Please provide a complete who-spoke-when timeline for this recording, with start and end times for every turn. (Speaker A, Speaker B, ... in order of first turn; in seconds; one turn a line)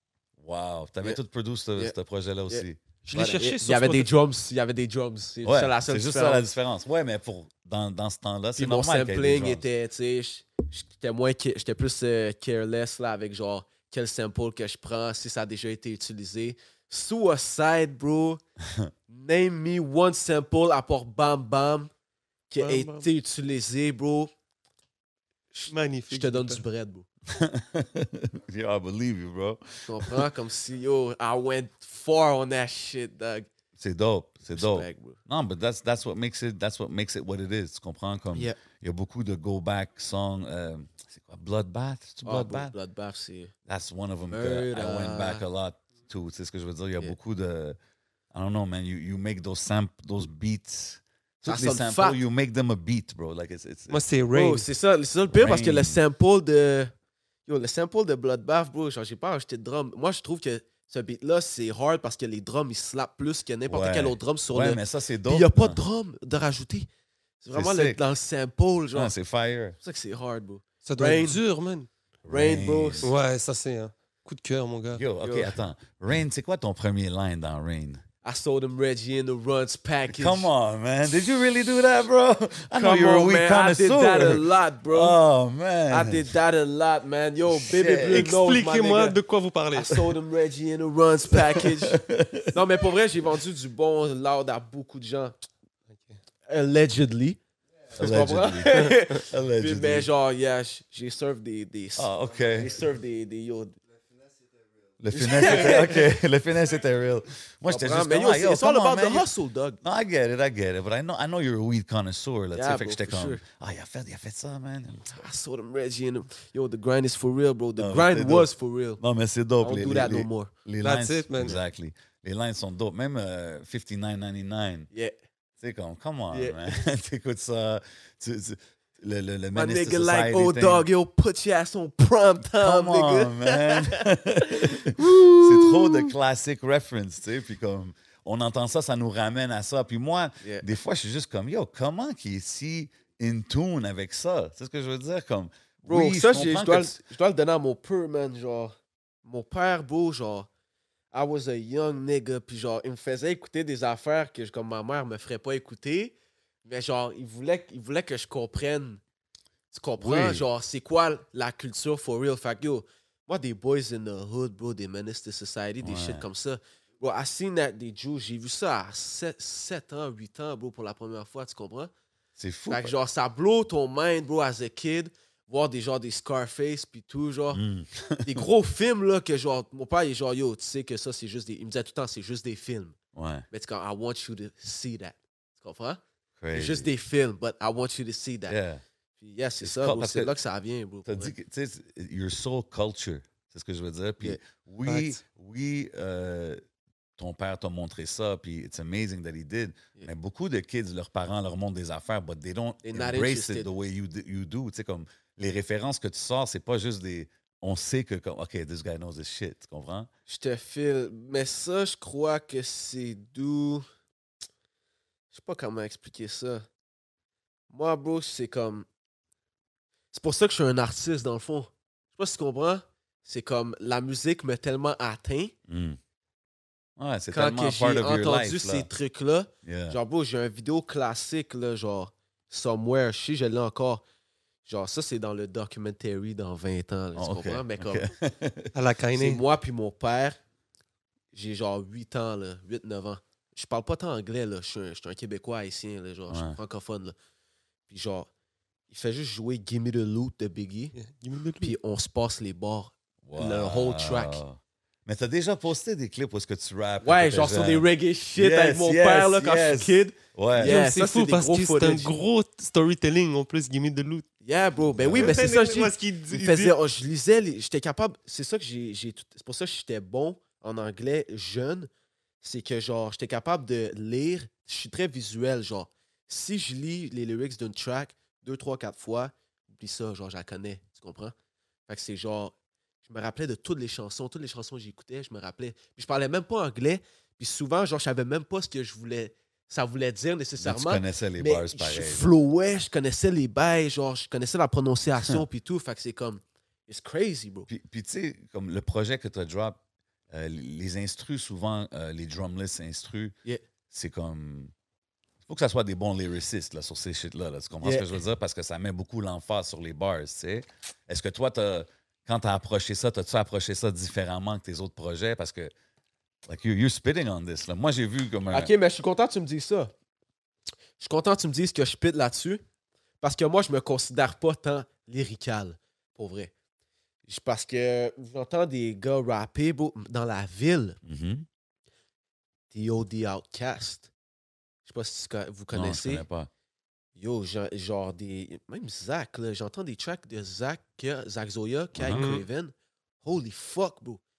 Speaker A: 0.4-2.8
Speaker B: 2.5-6.5
Speaker C: 3.0-4.1
Speaker A: 5.4-9.6
Speaker B: 8.6-18.4
Speaker B: 19.1-21.9
Speaker B: 22.5-24.3
Speaker C: 22.6-23.1
Speaker B: 25.5-27.1
Speaker C: 25.7-26.6
Speaker A: 27.3-30.2
Speaker B: 29.8-33.5
Speaker A: 33.8-42.7
Speaker B: 34.5-35.2
Speaker B: 42.2-43.5
Speaker A: 43.7-47.8
Speaker B: 44.3-45.4
Speaker A: 48.3-54.0
Speaker B: 51.5-52.2
Speaker C: 53.9-54.7
Speaker B: 54.3-56.9
Speaker A: 55.3-56.0
Speaker B: 57.5-66.9
Speaker A: 63.7-65.8
Speaker B: 67.4-69.1
Speaker A: 67.5-68.0
Speaker A: 68.9-69.8
Speaker B: 69.8-71.4
Speaker C: 70.8-71.9
Speaker A: 72.2-73.1
Speaker B: 72.3-73.1
Speaker C: 73.0-75.0
Speaker A: 74.9-78.0
Speaker B: 75.2-75.6
Speaker B: 78.2-80.5
Speaker A: 80.1-86.3
Speaker B: 82.7-85.2
Speaker B: 85.9-89.2
Speaker A: 87.5-88.3
Speaker C: 88.1-90.1
Speaker B: 89.7-92.0
Speaker A: 91.3-92.6
Speaker B: 92.5-95.3
Speaker B: 96.5-97.4
Speaker A: 97.9-100.1
Speaker B: 97.9-103.8
Speaker A: 102.0-102.8
Speaker A: 105.0-109.3
Speaker B: 105.1-106.1
Speaker B: 107.7-109.8
Speaker A: 109.8-115.1
Speaker B: 112.5-113.4
Speaker B: 115.0-119.0
Speaker A: 117.8-124.9
Speaker B: 119.6-120.5
Speaker C: 120.8-121.6
Speaker A: 125.6-130.8
Speaker B: 126.3-126.6
Speaker B: 129.5-136.1
Speaker A: 132.6-147.0
Speaker B: 145.8-150.5
Speaker B: 151.1-159.0
Speaker B: 159.7-171.9
Speaker A: 160.0-160.4
Speaker A: 165.8-166.2
Speaker A: 172.4-172.9
Speaker B: 172.7-177.6
Speaker A: 177.5-178.4
Speaker B: 178.2-183.0
Speaker A: 183.1-183.4
Speaker B: 183.5-186.0
Speaker A: 186.4-186.9
Speaker B: 186.5-188.6
Speaker A: 188.5-188.8
Speaker B: 189.2-191.3
Speaker A: 189.6-190.3
Speaker A: 191.1-196.6
Speaker C: 194.8-195.2
Speaker A: 197.2-210.1
Speaker B: 202.8-203.7
Speaker B: 210.3-213.8
Speaker B: 215.3-216.7
Speaker B: 217.7-218.9
Speaker B: 220.1-225.5
Speaker A: 225.7-226.0
Speaker A: 227.0-228.9
Speaker B: 227.3-234.0
Speaker A: 229.6-230.0
Speaker B: 234.7-238.1
Speaker A: 237.2-238.7
Speaker C: 238.7-239.4
Speaker B: 239.2-240.4
Speaker B: 241.3-247.1
Speaker A: 246.3-246.6
Speaker B: 247.9-248.3
Speaker B: 248.9-250.9
Speaker C: 251.0-251.7
Speaker B: 251.6-254.4
Speaker A: 253.2-260.8
Speaker B: 257.0-262.1
Speaker C: 260.6-264.2
Speaker B: 264.4-271.9
Speaker A: 265.0-265.4
Speaker C: 265.1-266.7
Speaker B: 272.4-281.3
Speaker B: 281.9-297.7
Speaker A: 290.6-292.3
Speaker A: 297.7-303.3
Speaker A: 303.9-304.7
Speaker A: 305.5-315.7
Speaker B: 307.8-308.1
Speaker A: 316.4-318.7
Speaker B: 318.5-319.9
Speaker B: 321.0-322.6
Speaker B: 323.2-326.5
Speaker B: 327.2-331.0
Speaker A: 331.0-331.5
Speaker B: 332.7-334.1
Speaker B: 334.8-336.2
Speaker A: 335.7-336.5
Speaker B: 337.1-344.2
Speaker A: 341.9-342.3
Speaker C: 342.1-342.4